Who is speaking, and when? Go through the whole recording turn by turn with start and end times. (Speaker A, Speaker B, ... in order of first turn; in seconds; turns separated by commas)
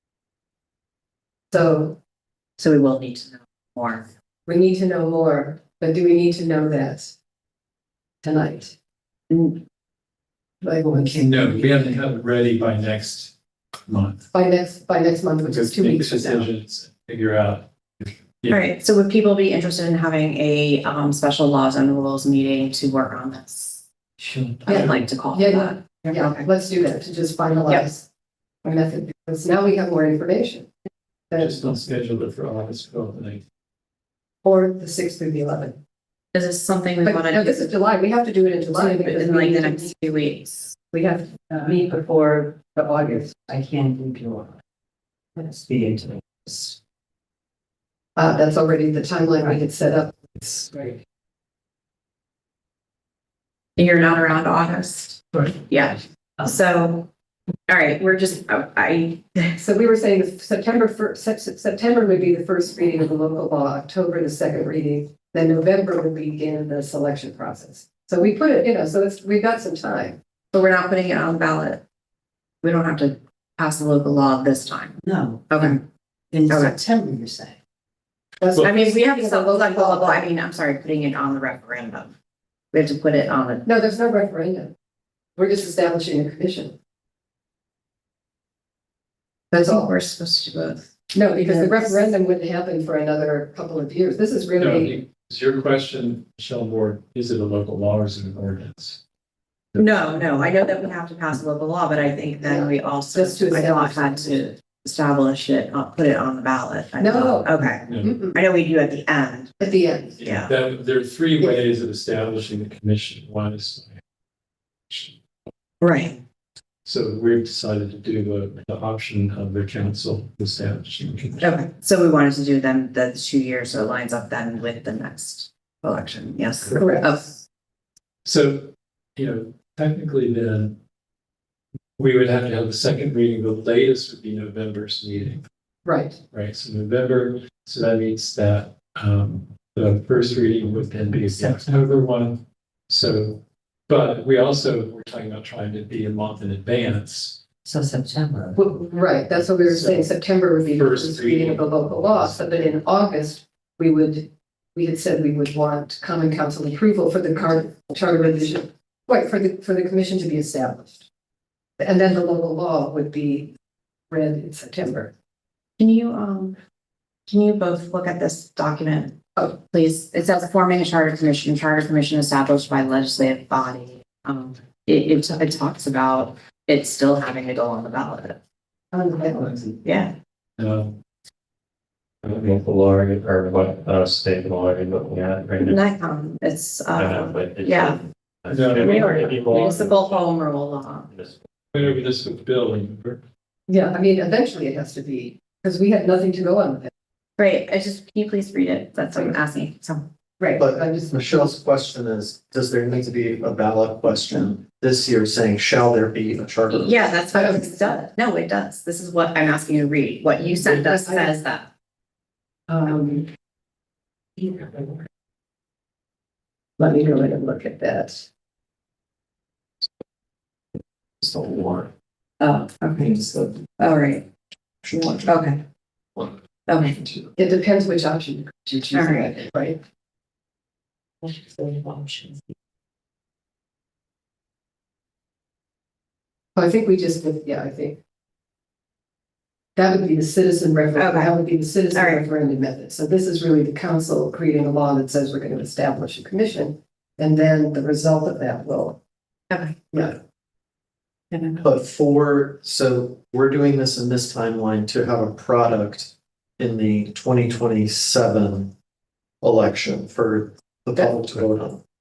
Speaker A: 1.5-2.0, Speaker B: 2.6-4.1, Speaker A: 4.5-7.1, Speaker A: 8.2-8.7, Speaker B: 9.3-9.6, Speaker A: 10.6-11.5, Speaker C: 11.2-14.3, Speaker A: 14.3-16.5, Speaker C: 15.4-18.6, Speaker B: 18.5-23.8, Speaker B: 24.6-26.4, Speaker A: 24.6-28.1, Speaker A: 28.6-30.7, Speaker A: 31.3-31.6, Speaker C: 31.4-33.4, Speaker A: 34.4-35.8, Speaker B: 36.3-37.8, Speaker A: 37.0-39.9, Speaker B: 38.7-40.7, Speaker A: 40.9-43.4, Speaker D: 41.5-44.5, Speaker D: 45.4-46.7, Speaker A: 48.1-50.8, Speaker B: 53.8-57.1, Speaker B: 57.7-59.6, Speaker A: 59.6-70.2, Speaker B: 70.5-71.8, Speaker B: 72.6-74.9, Speaker D: 75.0-75.7, Speaker B: 75.5-75.8, Speaker D: 76.3-77.5, Speaker B: 76.5-76.8, Speaker A: 78.4-80.3, Speaker B: 78.5-82.1, Speaker B: 82.7-83.7, Speaker A: 83.6-84.7, Speaker A: 85.4-86.8, Speaker A: 89.5-89.9, Speaker B: 89.6-92.1, Speaker A: 91.1-95.0, Speaker C: 94.6-99.0, Speaker C: 99.7-100.0, Speaker B: 99.8-109.5, Speaker A: 102.4-104.5, Speaker A: 107.0-108.4, Speaker C: 107.8-108.1, Speaker A: 109.6-110.2, Speaker B: 110.2-110.5, Speaker C: 110.2-114.0, Speaker C: 114.9-115.2, Speaker B: 115.8-116.2, Speaker C: 116.8-121.6, Speaker B: 121.4-127.4, Speaker A: 126.7-127.2, Speaker C: 128.2-130.8, Speaker C: 132.0-135.4, Speaker A: 135.8-136.2, Speaker C: 136.3-147.4, Speaker D: 141.3-141.7, Speaker D: 147.7-148.7, Speaker A: 148.6-161.1, Speaker C: 149.6-150.1, Speaker C: 150.7-152.5, Speaker A: 161.8-163.5, Speaker A: 164.1-165.1, Speaker B: 165.8-166.6, Speaker B: 167.3-178.4, Speaker A: 178.9-179.8, Speaker B: 179.8-180.1, Speaker C: 180.6-180.9, Speaker E: 182.2-185.8, Speaker B: 185.6-188.0, Speaker E: 186.9-190.3, Speaker C: 188.5-189.7, Speaker B: 188.8-191.1, Speaker E: 191.1-192.0, Speaker C: 191.7-193.2, Speaker A: 193.7-196.9, Speaker B: 197.4-200.1, Speaker A: 200.4-201.5, Speaker F: 200.6-207.1, Speaker B: 206.7-211.7, Speaker A: 207.3-208.0, Speaker A: 210.6-211.3, Speaker A: 212.7-213.3, Speaker A: 214.4-215.0, Speaker A: 216.8-218.3, Speaker B: 222.4-224.3, Speaker B: 224.9-225.6, Speaker B: 226.7-227.0, Speaker A: 227.4-229.8, Speaker B: 228.9-229.4, Speaker B: 231.2-232.3, Speaker A: 236.5-238.0, Speaker A: 239.8-249.0, Speaker B: 240.9-241.3, Speaker B: 241.9-242.2, Speaker B: 249.5-249.8, Speaker A: 249.9-250.2, Speaker B: 251.3-251.6, Speaker F: 251.6-258.7, Speaker F: 259.4-261.8